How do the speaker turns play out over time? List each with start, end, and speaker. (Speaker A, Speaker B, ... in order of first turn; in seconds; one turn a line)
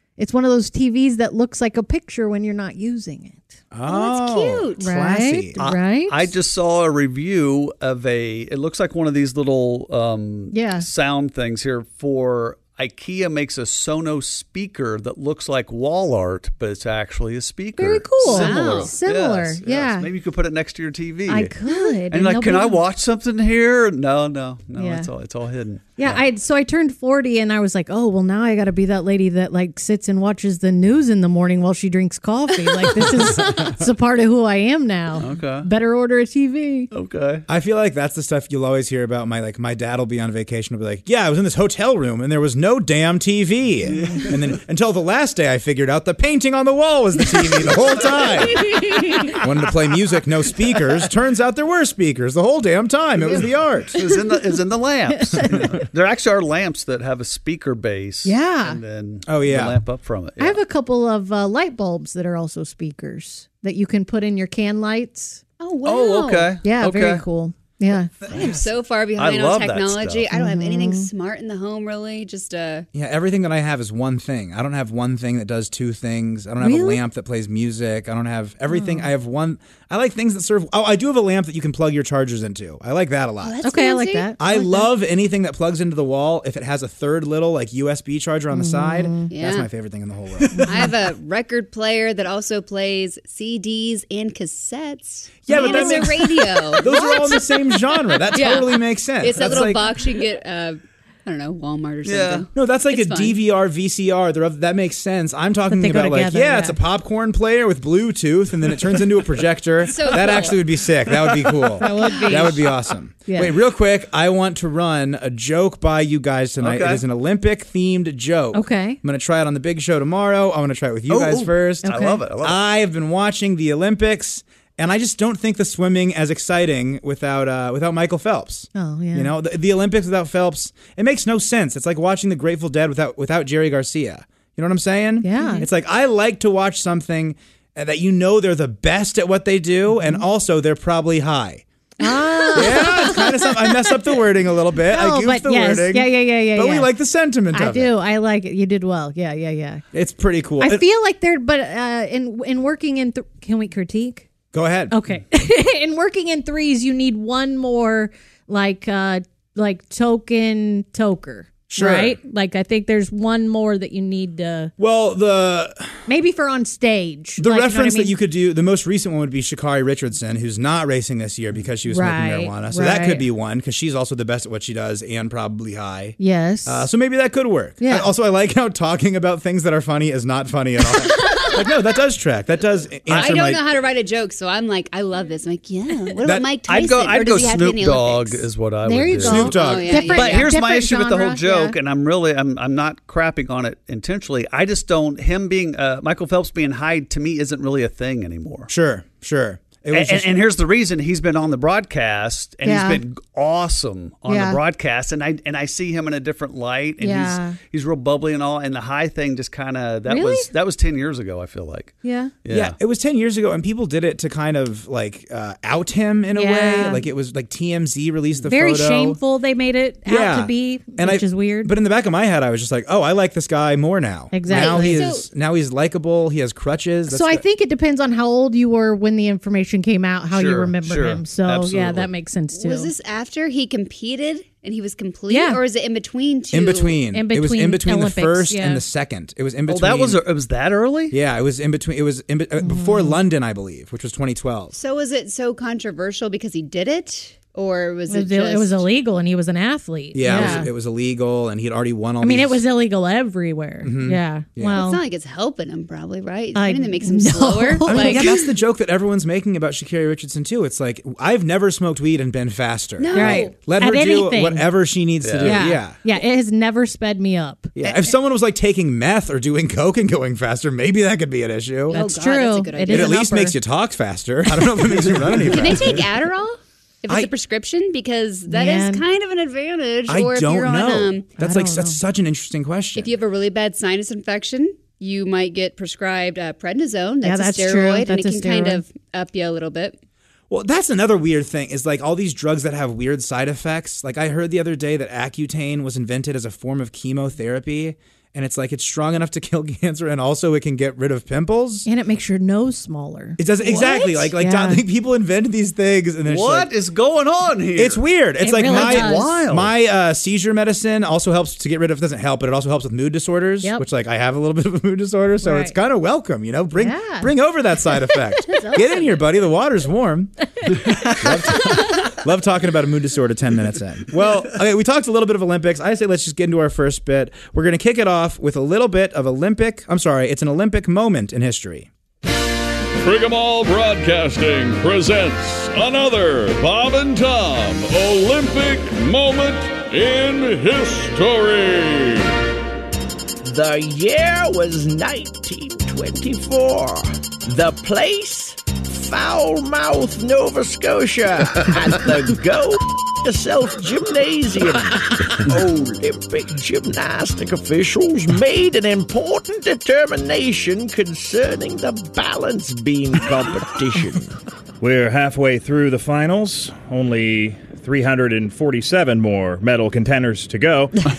Speaker A: 0.2-3.6
Speaker B: 3.7-5.6
Speaker C: 3.9-4.8
Speaker A: 4.8-6.3
Speaker D: 5.6-21.5
Speaker A: 10.5-10.9
Speaker A: 17.8-20.1
Speaker C: 18.2-18.9
Speaker A: 21.3-22.8
Speaker D: 22.1-26.2
Speaker A: 24.8-25.1
Speaker A: 26.0-36.9
Speaker B: 33.0-33.8
Speaker D: 35.2-35.7
Speaker D: 36.9-37.5
Speaker B: 37.5-54.0
Speaker D: 43.9-44.6
Speaker D: 53.9-60.6
Speaker A: 58.2-58.8
Speaker B: 59.2-59.8
Speaker A: 60.4-65.4
Speaker C: 65.6-66.5
Speaker D: 65.8-67.2
Speaker A: 66.6-68.1
Speaker B: 68.2-68.6
Speaker C: 68.3-72.9
Speaker D: 69.2-70.3
Speaker A: 70.3-71.1
Speaker B: 72.9-83.6
Speaker A: 76.6-77.0
Speaker A: 78.7-79.1
Speaker C: 83.4-84.3
Speaker A: 83.6-84.9
Speaker B: 84.4-90.9
Speaker A: 88.5-89.3
Speaker C: 89.3-89.7
Speaker A: 90.5-90.8
Speaker C: 90.7-97.6
Speaker B: 95.5-99.9
Speaker A: 95.5-97.4
Speaker C: 98.2-103.4
Speaker D: 102.0-102.5
Speaker B: 102.5-141.6
Speaker A: 105.7-106.8
Speaker C: 109.8-110.6
Speaker C: 111.8-112.5
Speaker A: 111.8-112.6
Speaker A: 113.3-113.6
Speaker D: 116.6-117.0
Speaker A: 118.5-119.0
Speaker D: 121.1-122.6
Speaker A: 121.8-122.2
Speaker A: 128.8-129.3
Speaker A: 135.2-135.7
Speaker A: 139.9-140.2
Speaker A: 142.0-144.1
Speaker C: 142.0-142.7
Speaker B: 142.5-147.9
Speaker A: 144.9-146.9
Speaker A: 147.5-149.8
Speaker B: 149.9-150.8
Speaker A: 150.6-154.3
Speaker B: 154.5-154.9
Speaker A: 154.9-164.7
Speaker B: 161.7-162.2
Speaker B: 164.8-166.0
Speaker A: 166.1-168.1
Speaker B: 167.4-183.6
Speaker A: 171.9-173.2
Speaker A: 176.2-176.9
Speaker A: 177.8-178.1
Speaker C: 183.1-188.5
Speaker D: 186.6-198.7
Speaker A: 188.9-191.8
Speaker B: 189.2-190.1
Speaker C: 189.3-190.5
Speaker B: 198.7-200.4
Speaker D: 199.9-212.8
Speaker A: 202.6-203.0
Speaker A: 204.3-204.6
Speaker A: 207.0-207.6
Speaker A: 210.1-210.5
Speaker A: 212.0-212.3
Speaker B: 212.5-219.2
Speaker A: 216.4-217.1
Speaker A: 218.4-221.7
Speaker B: 220.1-227.4
Speaker A: 224.3-225.1
Speaker C: 224.5-225.3
Speaker A: 227.1-232.9
Speaker D: 230.3-232.1
Speaker C: 232.6-237.0
Speaker A: 235.3-235.6
Speaker B: 236.5-240.2
Speaker A: 237.1-238.8
Speaker D: 239.7-241.2
Speaker B: 241.1-244.8
Speaker A: 242.6-243.2
Speaker C: 244.7-248.9
Speaker A: 248.1-250.7
Speaker B: 250.1-252.6
Speaker A: 252.2-255.0
Speaker B: 253.8-254.8
Speaker C: 254.7-258.5
Speaker A: 256.6-258.3
Speaker B: 257.9-265.9
Speaker C: 263.0-263.5
Speaker A: 263.1-264.7
Speaker D: 265.2-265.7
Speaker A: 265.4-267.7
Speaker B: 267.8-272.0
Speaker C: 271.9-273.2
Speaker A: 271.9-273.6
Speaker B: 272.9-276.1
Speaker D: 274.9-275.8
Speaker C: 275.5-281.3
Speaker A: 278.5-279.1
Speaker B: 280.1-283.1
Speaker A: 281.4-282.0
Speaker C: 283.0-290.0
Speaker A: 287.2-288.8
Speaker B: 290.5-301.9
Speaker A: 301.9-304.8
Speaker B: 303.4-306.7
Speaker D: 306.2-308.0
Speaker B: 307.8-331.9
Speaker A: 308.4-309.4
Speaker D: 308.6-309.7
Speaker A: 315.4-315.8
Speaker A: 316.8-317.3
Speaker A: 318.4-319.0
Speaker E: 333.0-342.4
Speaker F: 343.4-364.3
Speaker G: 364.8-370.9